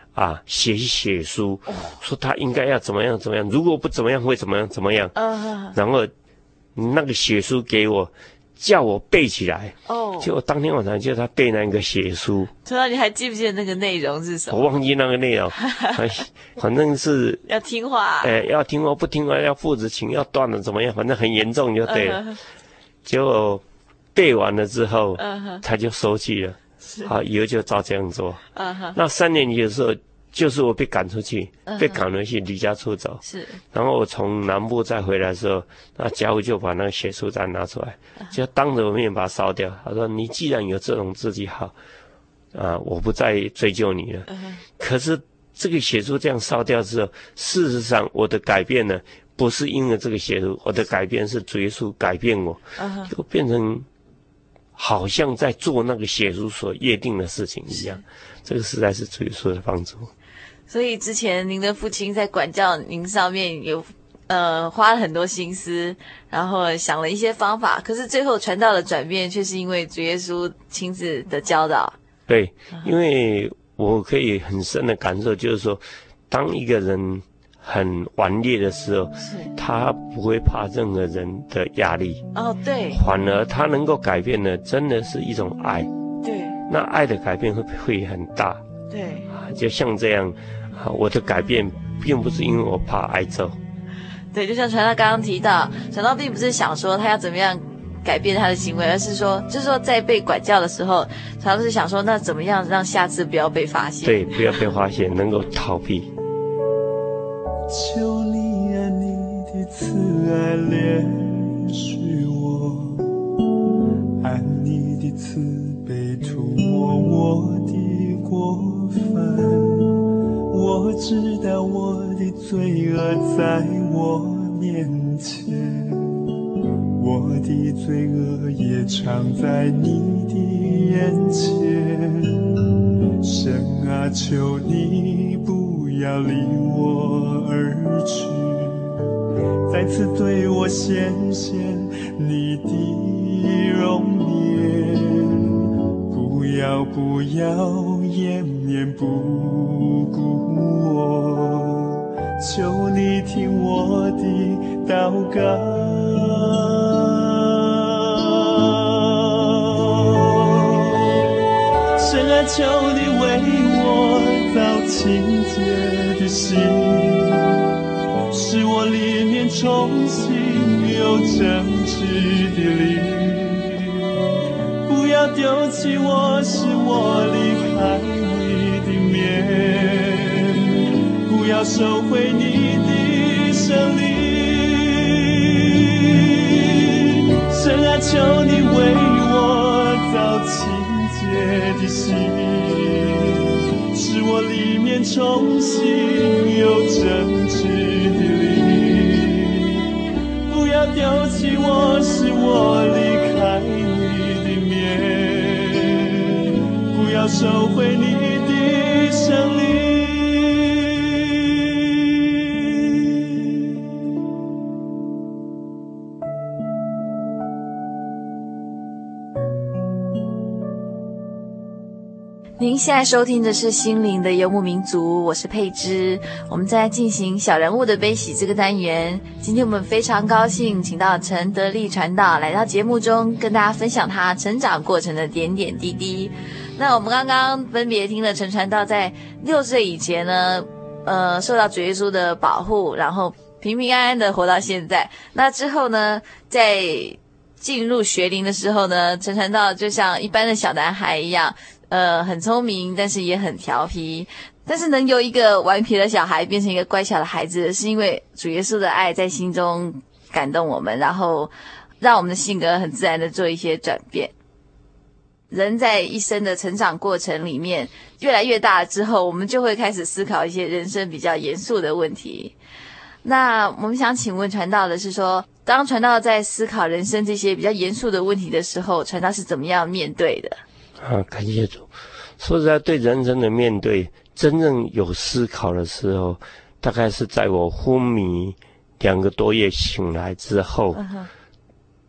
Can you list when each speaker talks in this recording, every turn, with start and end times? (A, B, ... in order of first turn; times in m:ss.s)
0:00.1-0:05.1 A
0:01.7-0:01.9 B
0:05.2-0:05.8 B
0:05.7-0:06.1 A
0:06.7-0:12.5 A
0:09.9-0:10.3 B
0:12.6-0:14.6 B
0:14.5-0:17.4 A
0:15.6-0:15.9 B
0:17.5-0:18.3 B
0:18.2-0:22.4 A
0:21.8-0:22.4 B
0:23.0-0:23.6 A
0:24.1-0:28.4 A
0:25.2-0:25.6 B
0:26.8-0:27.1 B
0:28.5-0:29.0 B
0:28.9-0:41.7 A
0:31.7-0:32.0 B
0:33.2-0:33.6 B
0:42.5-0:53.9 A
0:44.3-0:44.6 B
0:52.8-0:53.1 B
0:54.7-1:00.1 A
0:57.7-0:58.0 B
1:00.7-1:11.9 B
1:12.3-1:22.2 A
1:19.2-1:19.5 B
1:22.3-1:23.0 B
1:22.9-1:25.9 A
1:26.2-1:26.6 B
1:26.7-1:28.6 A
1:28.9-1:29.3 B
1:29.3-1:33.6 A
1:34.3-1:44.6 B
1:44.0-1:46.1 A
1:47.7-1:53.1 C
1:54.2-2:00.0 C
2:00.5-2:06.2 C
2:07.0-2:12.4 C
2:13.2-2:18.9 C
2:19.7-2:25.6 C
2:26.1-2:41.2 C
2:42.0-2:47.6 C
2:48.3-2:54.0 C
2:54.8-3:19.8 C
3:20.5-3:31.8 C
3:42.6-4:24.3 B
4:25.5-4:32.5 B
4:33.2-4:40.6 B
4:41.0-4:41.9 A
4:42.4-4:51.0 A
4:51.0-4:51.3 B